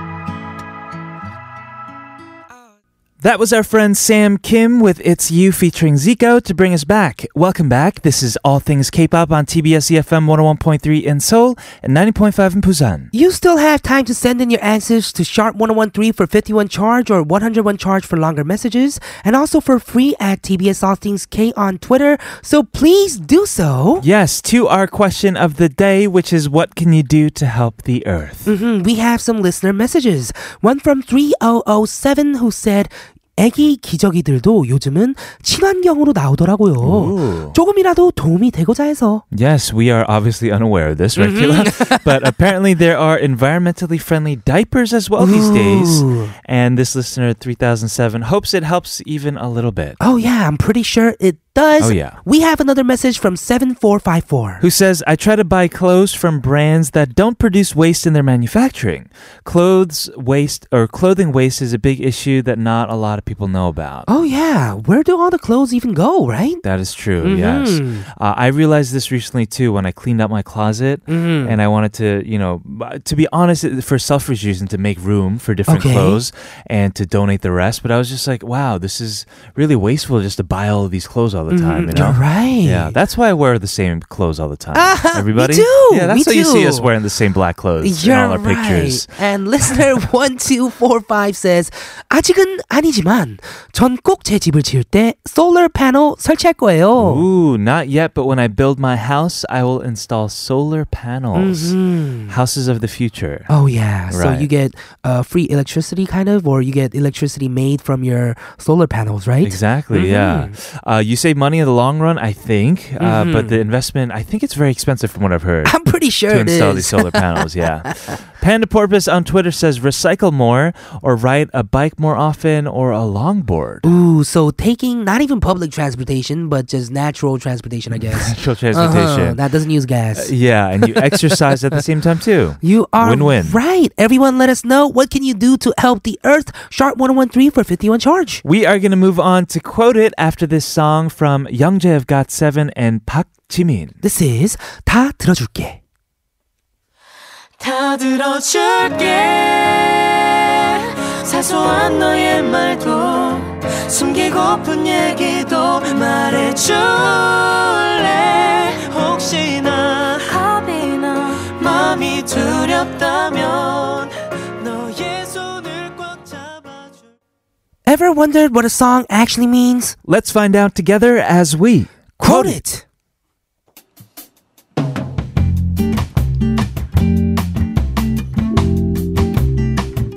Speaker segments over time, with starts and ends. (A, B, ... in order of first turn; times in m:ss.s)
0:03.2-0:13.1 A
0:13.1-0:24.1 B
0:24.0-0:28.5 A
0:28.5-0:39.2 B
0:36.8-0:37.6 A
0:39.3-0:50.0 A
0:41.2-0:42.3 B
0:45.2-0:46.3 B
0:50.0-0:54.6 B
0:51.8-0:52.2 A
0:54.6-1:04.1 A
1:04.1-1:06.6 B
1:06.6-1:29.1 A
1:07.2-1:08.1 B
1:11.1-1:11.6 B
1:15.7-1:16.2 B
1:21.5-1:23.0 B
1:24.7-1:26.9 B
1:27.8-1:37.3 B
1:37.0-1:41.8 A
1:41.4-1:42.4 B
1:42.3-1:43.5 A
1:43.5-1:50.5 B
1:44.1-1:44.5 A
1:49.4-1:55.8 A
1:53.0-1:53.6 B
1:55.6-1:57.9 B
1:56.3-2:03.8 A
2:03.8-2:11.8 B
2:08.1-2:09.4 A
2:10.2-2:13.6 A
2:12.6-2:18.4 B
2:18.4-2:23.9 A
2:24.0-2:25.8 B
2:27.6-2:47.1 C
2:47.9-2:50.0 B
2:50.1-2:52.6 A
2:52.2-2:52.8 B